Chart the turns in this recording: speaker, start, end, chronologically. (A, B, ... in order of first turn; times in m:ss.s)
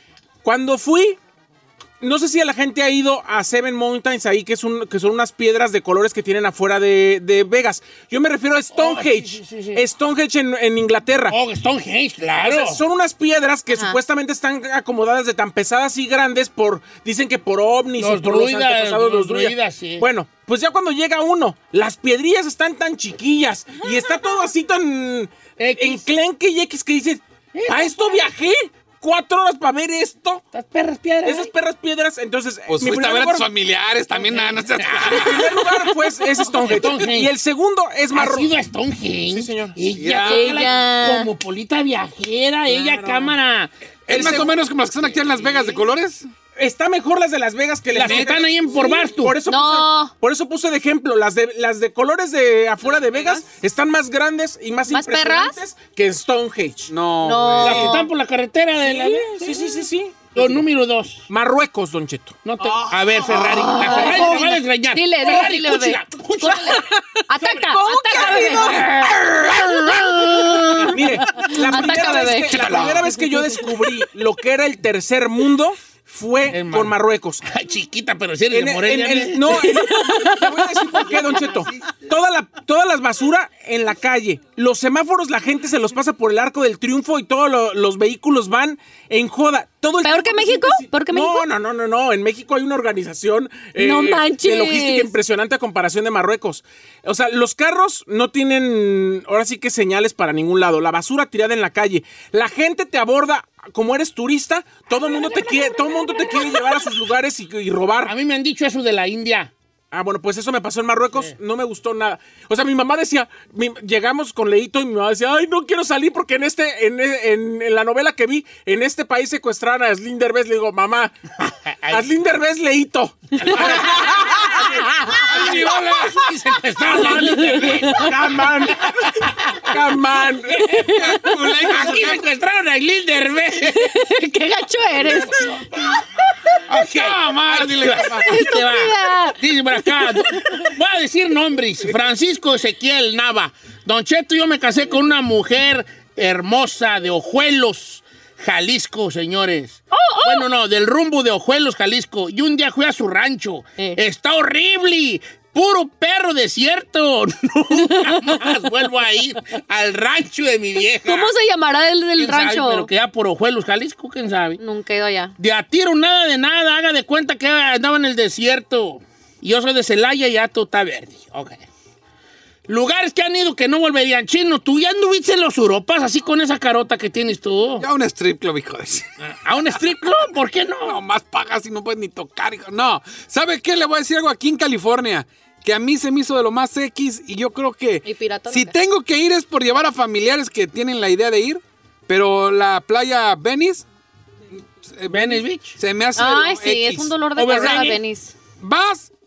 0:00.4-0:01.2 A
0:02.0-0:11.3 A
0:08.7-0:09.8 B
0:11.3-0:12.8 B
0:12.4-0:30.4 A
0:13.7-0:14.0 C
0:18.0-0:20.0 B
0:25.6-0:26.0 B
0:27.5-0:28.2 B
0:30.5-0:31.5 B
0:31.2-0:33.5 A
0:32.7-0:35.6 D
0:34.1-0:35.5 B
0:35.1-0:38.5 A
0:36.5-0:37.3 B
0:38.1-0:44.5 B
0:39.3-0:39.8 A
0:39.9-0:40.7 D
0:40.2-0:41.3 C
0:42.7-0:43.3 A
0:44.1-0:46.3 D
0:44.1-0:44.6 A
0:45.1-0:45.8 B
0:46.6-0:56.9 A
0:47.9-0:49.4 B
0:49.5-0:50.1 C
0:54.9-0:55.6 C
0:56.9-0:58.0 D
0:57.2-0:58.0 C
0:57.6-0:59.6 B
0:58.8-1:00.6 A
1:00.3-1:01.3 B
1:01.3-1:04.6 A
1:02.4-1:06.9 B
1:03.4-1:04.4 C
1:04.9-1:09.1 C
1:07.4-1:11.1 B
1:10.9-1:17.4 A
1:11.4-1:12.6 C
1:12.2-1:13.2 D
1:16.4-1:19.7 B
1:18.5-1:48.1 A
1:19.7-1:20.4 C
1:30.0-1:31.4 C
1:33.8-1:35.1 C
1:48.0-1:49.5 B
1:49.9-2:01.1 A
2:01.4-2:02.1 B
2:01.9-2:04.3 A
2:03.4-2:09.8 B
2:05.2-2:06.2 D
2:07.2-2:07.9 C
2:07.9-2:10.9 A
2:10.8-2:12.2 D
2:10.9-2:11.6 C
2:11.7-2:14.0 B
2:13.6-2:15.8 C
2:15.0-2:41.3 B
2:16.7-2:18.3 D
2:18.2-2:20.7 C
2:29.9-2:30.4 C
2:41.0-2:42.9 C
2:42.2-2:44.6 B
2:44.6-2:45.3 C
2:45.4-2:51.7 B
2:52.7-2:57.9 B
2:57.8-2:59.1 D
2:59.2-3:01.0 B
3:00.8-3:13.8 D
3:08.0-3:08.7 C
3:14.6-3:17.9 D
3:15.1-3:15.8 B
3:16.2-3:18.3 C
3:17.4-3:18.0 B
3:18.6-3:19.1 D